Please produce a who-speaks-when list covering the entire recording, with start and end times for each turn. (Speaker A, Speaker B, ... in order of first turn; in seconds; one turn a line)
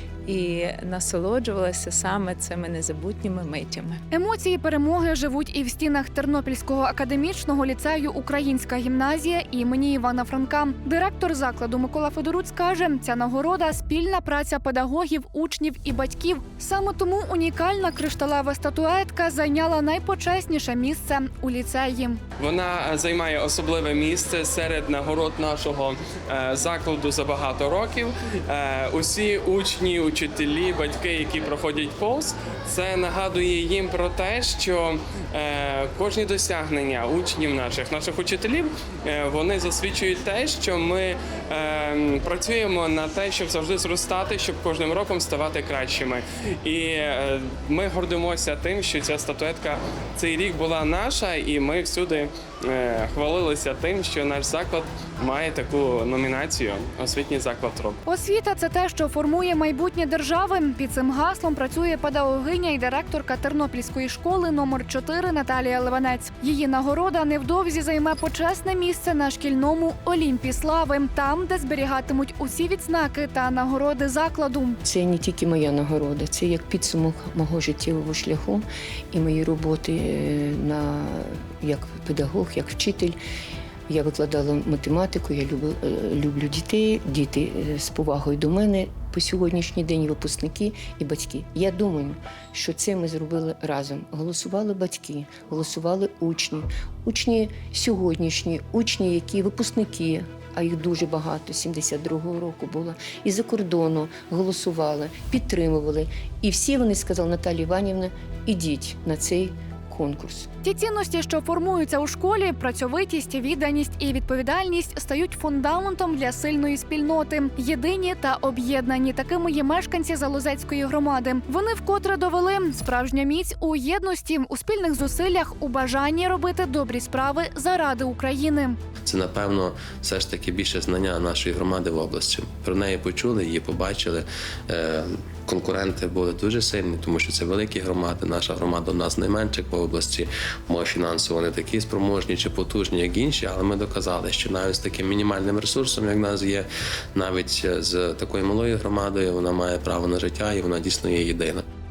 Speaker A: 0.3-4.0
Speaker B: 4.1-22.2
Speaker C: 22.4-58.0
Speaker B: 58.0-74.8
Speaker D: 74.8-83.2
Speaker D: 83.9-110.5
Speaker B: 110.6-128.8
Speaker E: 129.1-151.6